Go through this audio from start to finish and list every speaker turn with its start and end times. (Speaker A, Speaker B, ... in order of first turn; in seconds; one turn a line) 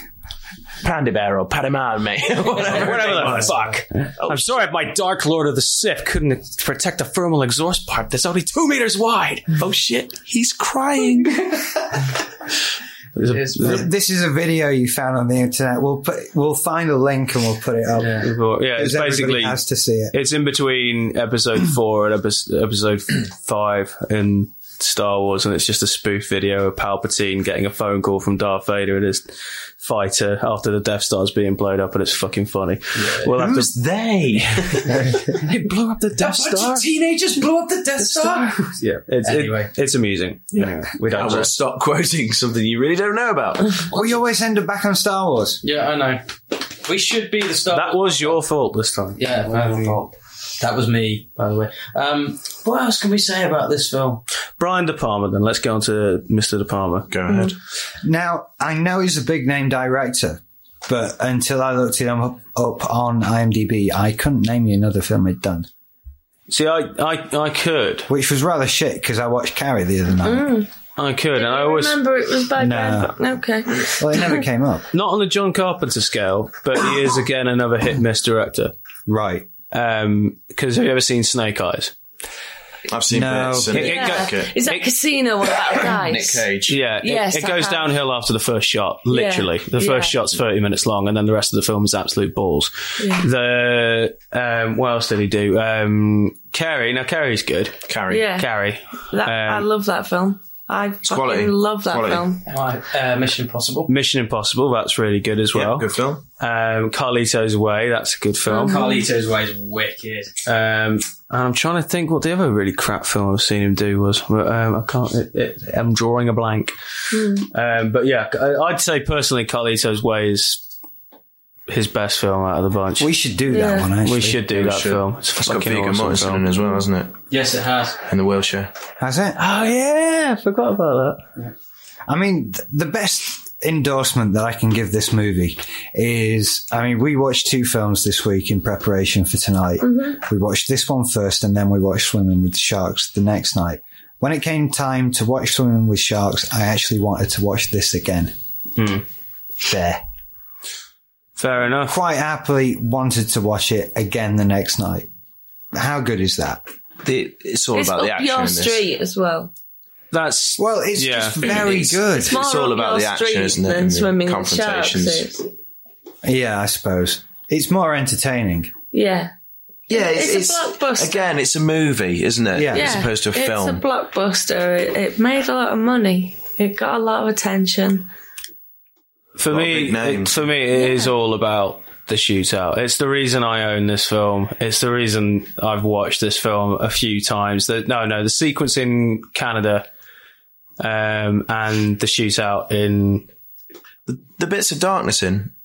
Speaker A: 0.8-3.6
Speaker B: 2.4-9.7
Speaker C: 2.5-3.5
Speaker A: 4.2-4.6
Speaker A: 9.5-11.5
Speaker B: 13.2-13.8
Speaker C: 13.2-13.8
Speaker D: 13.6-20.1
Speaker C: 18.0-18.3
Speaker B: 18.2-19.6
Speaker B: 20.1-34.6
Speaker C: 33.0-33.3
Speaker A: 33.4-34.9
Speaker D: 35.0-35.4
Speaker B: 35.3-36.8
Speaker C: 36.1-39.7
Speaker B: 38.0-41.5
Speaker A: 41.1-43.9
Speaker D: 43.9-45.6
Speaker C: 45.6-48.4
Speaker B: 47.7-50.0
Speaker C: 49.2-54.2
Speaker B: 54.6-57.1
Speaker A: 57.1-57.5
Speaker E: 57.3-57.5
Speaker D: 58.0-65.7
Speaker B: 66.5-68.1
Speaker D: 68.1-70.5
Speaker E: 70.2-70.7
Speaker B: 71.0-72.0
Speaker E: 71.3-74.4
Speaker D: 72.6-73.1
Speaker D: 73.8-74.9
Speaker B: 74.9-78.7
Speaker D: 79.0-79.5
Speaker B: 79.7-81.9
Speaker A: 82.9-84.6
Speaker D: 83.1-83.9
Speaker B: 83.7-84.9
Speaker E: 83.8-86.5
Speaker A: 85.7-86.8
Speaker B: 86.7-97.8
Speaker E: 87.0-88.0
Speaker E: 89.1-90.2
Speaker E: 93.0-93.3
Speaker A: 97.9-98.3
Speaker E: 98.1-98.5
Speaker B: 98.3-99.7
Speaker E: 99.1-102.4
Speaker A: 101.0-102.2
Speaker C: 102.5-103.9
Speaker B: 103.9-105.8
Speaker A: 105.5-106.2
Speaker B: 106.4-108.9
Speaker E: 108.5-109.0
Speaker C: 108.6-110.4
Speaker B: 110.4-116.7
Speaker E: 117.1-117.5
Speaker B: 117.5-120.6
Speaker B: 121.7-123.1
Speaker D: 123.0-124.4
Speaker E: 123.5-123.9
Speaker B: 124.0-126.5
Speaker A: 124.5-127.1
Speaker C: 127.3-128.0
Speaker A: 128.1-128.7
Speaker D: 129.0-129.4
Speaker B: 129.4-131.2
Speaker D: 132.1-148.3
Speaker E: 139.8-140.2
Speaker B: 148.8-149.0
Speaker D: 149.6-150.0
Speaker B: 151.4-152.0
Speaker D: 151.9-155.1
Speaker D: 155.7-156.6
Speaker A: 157.0-158.8
Speaker E: 157.7-159.5
Speaker B: 160.1-161.5
Speaker D: 160.6-162.4
Speaker A: 161.4-165.3
Speaker E: 162.2-165.5
Speaker D: 166.2-168.7
Speaker E: 168.9-169.3
Speaker A: 169.9-173.8
Speaker E: 169.9-171.4
Speaker D: 172.5-173.1
Speaker E: 172.7-178.1
Speaker B: 179.4-189.8
Speaker A: 179.5-180.4
Speaker E: 180.7-181.1
Speaker B: 190.8-193.3
Speaker A: 194.1-195.5